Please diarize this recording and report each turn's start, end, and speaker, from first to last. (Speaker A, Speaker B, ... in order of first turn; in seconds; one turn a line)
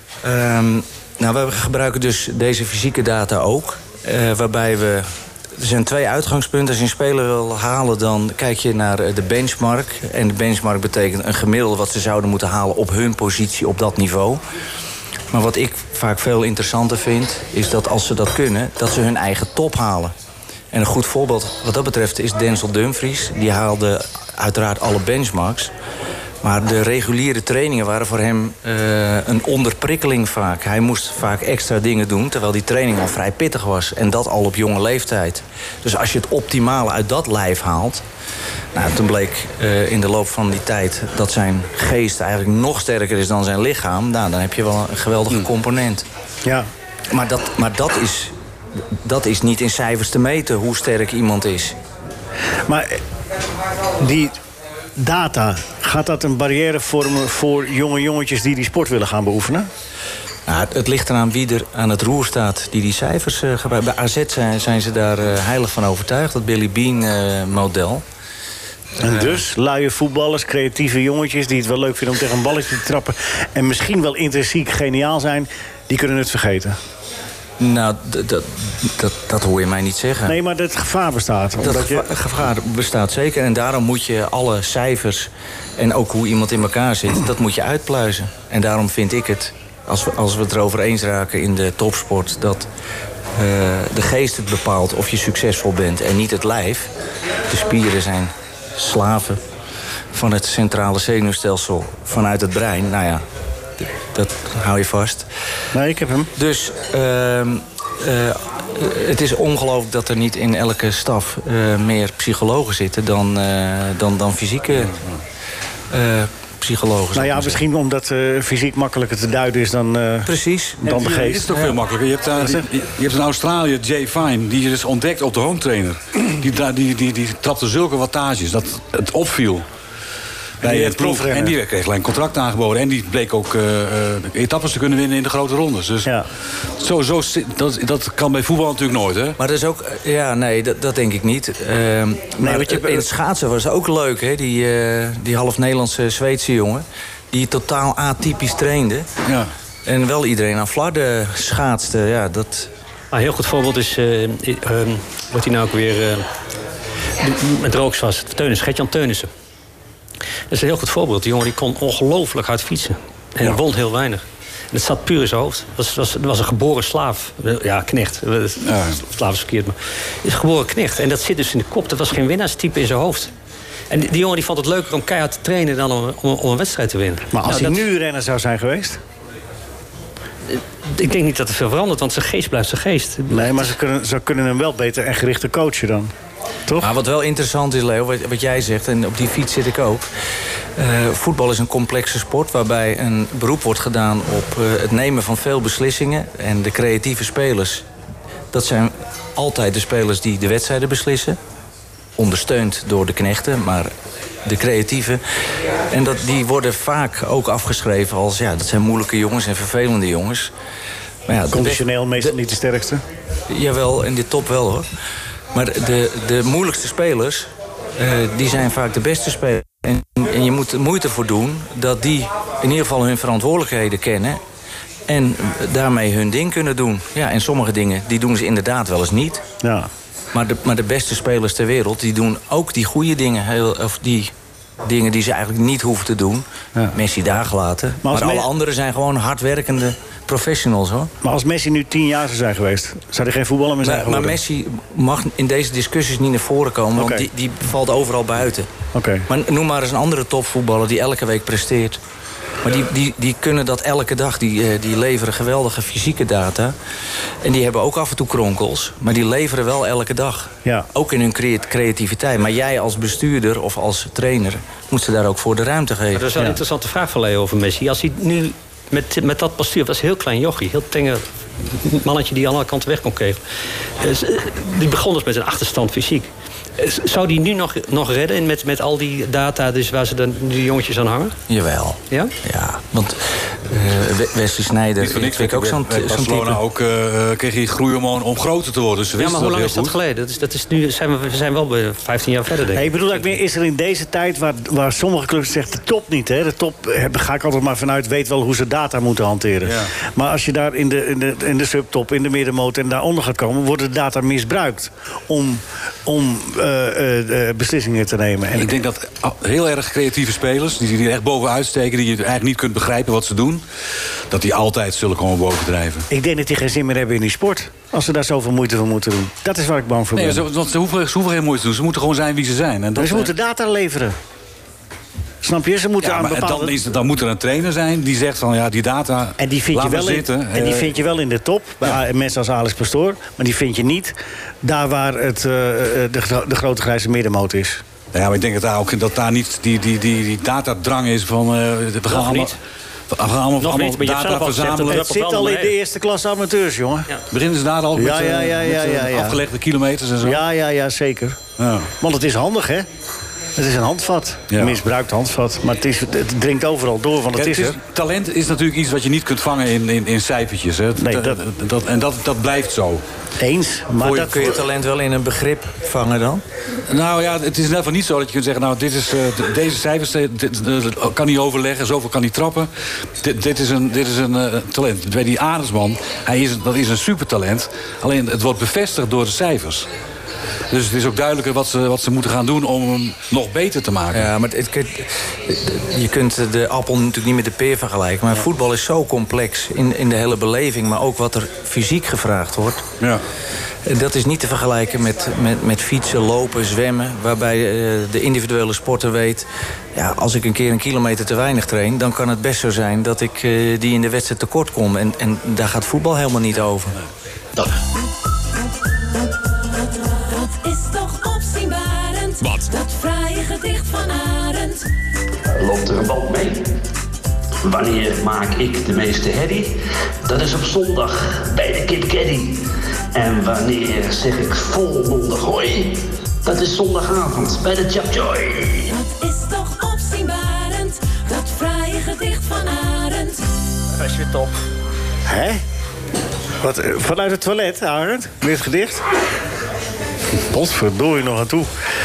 Speaker A: 0.2-14.4
Speaker A: 15.3-20.1
Speaker A: 20.7-25.7
Speaker A: 26.4-38.0
Speaker A: 38.7-46.0
Speaker A: 47.1-48.3
Speaker A: 49.0-51.8
Speaker B: 52.7-53.0
Speaker B: 54.0-54.4
Speaker B: 55.0-59.7
Speaker A: 60.5-68.0
Speaker B: 69.0-76.8
Speaker A: 69.0-69.3
Speaker A: 77.6-80.3
Speaker B: 80.3-82.1
Speaker A: 81.6-92.7
Speaker A: 93.3-96.9
Speaker A: 97.5-99.4
Speaker A: 100.1-103.2
Speaker A: 103.8-105.3
Speaker B: 105.7-106.3
Speaker A: 106.3-115.0
Speaker A: 115.9-117.6
Speaker B: 117.1-121.5
Speaker A: 120.2-120.9
Speaker C: 120.9-129.6
Speaker A: 121.5-121.8
Speaker B: 122.4-122.7
Speaker C: 130.6-136.1
Speaker B: 130.6-131.5
Speaker C: 136.8-139.4
Speaker A: 139.4-149.1
Speaker B: 142.4-143.1
Speaker A: 149.8-152.7
Speaker D: 153.1-156.2
Speaker D: 157.2-159.3
Speaker D: 160.5-173.3
Speaker C: 168.6-169.0
Speaker D: 173.9-177.8
Speaker B: 177.3-179.0
Speaker D: 180.5-183.7
Speaker B: 183.3-186.1
Speaker A: 186.8-190.1
Speaker A: 190.8-197.8
Speaker A: 198.5-201.4
Speaker A: 202.2-203.9
Speaker A: 204.4-205.2
Speaker A: 205.9-210.5
Speaker A: 211.3-212.3
Speaker B: 211.5-213.0
Speaker A: 213.5-214.8
Speaker A: 215.5-224.4
Speaker A: 225.1-229.4
Speaker B: 229.6-229.9
Speaker A: 230.3-234.3
Speaker A: 234.8-241.1
Speaker B: 238.0-238.5
Speaker B: 241.2-244.4
Speaker A: 243.8-248.7
Speaker B: 247.0-247.2
Speaker B: 248.9-249.2
Speaker A: 249.3-252.0
Speaker A: 252.6-256.7
Speaker A: 257.4-266.4
Speaker D: 266.1-273.4
Speaker D: 274.0-276.3
Speaker D: 276.8-281.4
Speaker A: 281.5-286.6
Speaker C: 285.0-289.9
Speaker D: 289.2-293.2
Speaker B: 292.7-308.7
Speaker C: 299.6-299.9
Speaker C: 308.6-313.6
Speaker C: 314.3-316.1
Speaker B: 316.1-320.4
Speaker C: 320.1-323.3
Speaker B: 322.9-324.1
Speaker B: 325.4-326.8
Speaker C: 326.0-330.9
Speaker B: 329.4-337.8
Speaker C: 338.1-342.6
Speaker D: 342.1-342.5
Speaker C: 343.1-345.0
Speaker D: 343.6-345.7
Speaker B: 344.9-347.1
Speaker C: 347.3-350.4
Speaker B: 347.9-349.4
Speaker B: 350.2-351.4
Speaker C: 351.6-351.9
Speaker B: 352.0-352.9
Speaker B: 353.6-357.8
Speaker C: 354.5-354.8
Speaker C: 357.3-363.0
Speaker B: 361.0-361.4
Speaker B: 363.4-364.6
Speaker A: 364.0-366.4
Speaker C: 366.9-372.7
Speaker C: 373.2-379.9
Speaker C: 380.7-384.3
Speaker A: 384.1-392.8
Speaker A: 393.8-406.9
Speaker E: 409.7-414.8
Speaker F: 415.6-416.6
Speaker F: 417.6-428.9
Speaker E: 428.9-433.4
Speaker B: 435.3-435.6
Speaker B: 436.6-439.0
Speaker B: 440.5-441.7